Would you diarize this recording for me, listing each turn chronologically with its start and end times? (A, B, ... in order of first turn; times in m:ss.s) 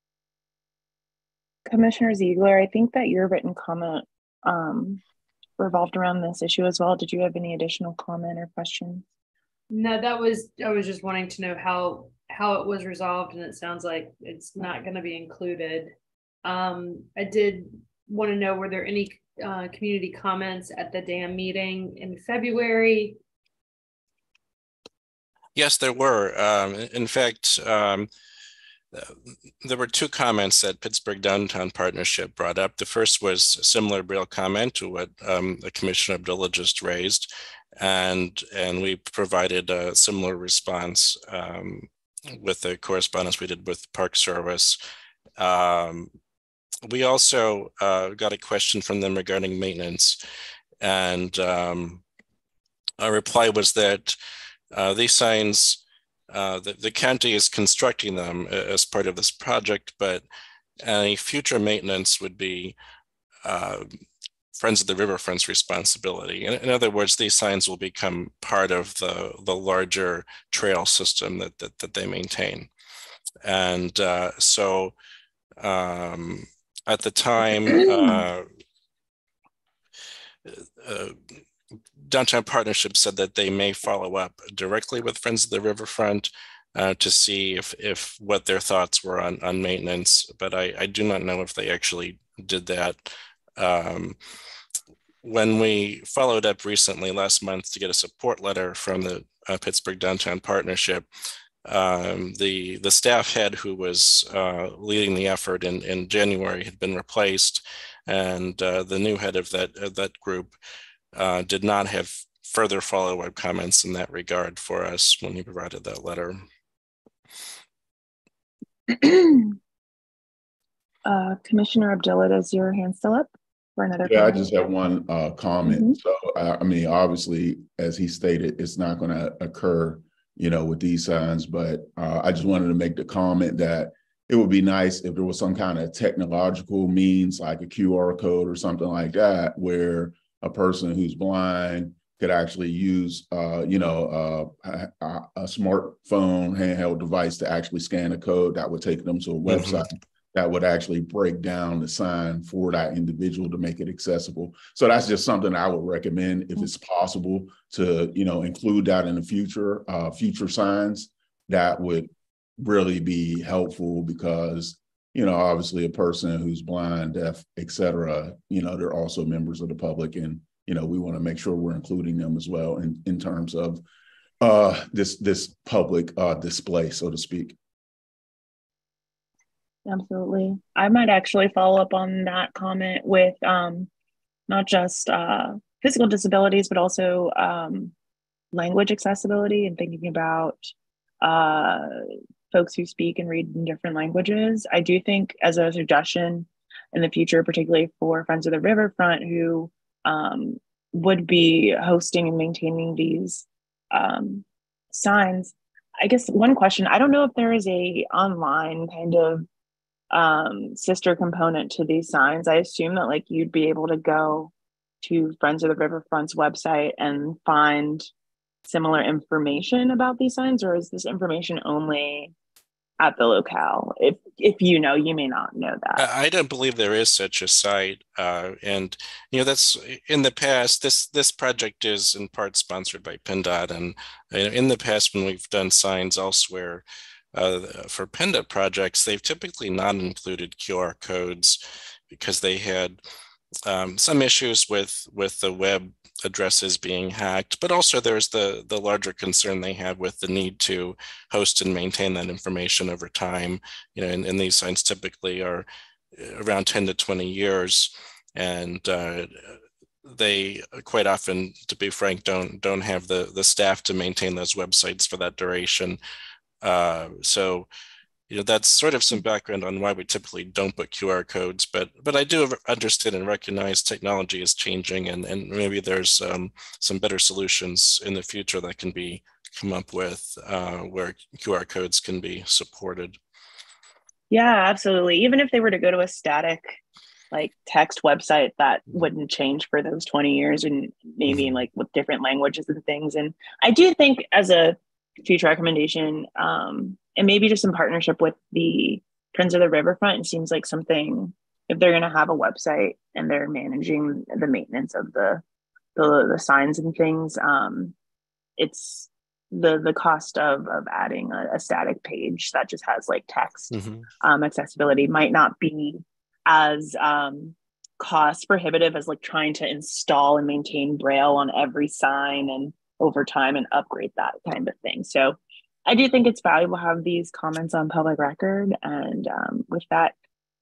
0:01.7-0:05.0 A
0:05.6-0:09.0 A
0:09.7-0:15.9 B
0:16.4-0:23.2 B
0:25.6-0:28.1 C
0:28.9-0:44.8 C
0:45.4-0:46.1 C
0:46.8-0:50.2 C
0:50.8-0:52.0 C
0:53.0-0:54.2 C
0:54.7-1:00.2 C
1:00.8-1:02.8 C
1:03.4-1:03.9 C
1:04.5-1:12.7 C
1:13.4-1:14.9 C
1:15.6-1:18.4 C
1:17.7-1:18.2 A
1:20.5-1:21.2 C
1:22.0-1:34.2 C
1:35.2-1:41.0 C
1:41.6-1:50.6 C
1:51.1-1:56.4 C
1:58.9-1:59.6 A
2:01.0-2:04.6 A
2:04.0-2:53.8 D
2:05.6-2:05.9 A
2:29.4-2:29.8 C
2:54.4-2:57.6 D
2:59.8-3:03.9 A
3:04.5-3:07.9 A
3:08.5-3:10.7 A
3:11.2-3:12.0 A
3:12.5-3:29.4 A
3:30.1-3:38.1 A
3:38.6-3:42.3 A
3:43.0-3:46.0 A
3:46.0-4:01.6 C
4:02.1-4:03.0 C
4:03.6-4:26.0 C
4:26.6-4:27.7 C
4:28.3-4:43.2 C
4:44.3-4:46.8 A
4:47.3-5:05.4 A
5:06.0-5:07.9 A
5:08.6-5:30.1 A
5:13.7-5:14.0 C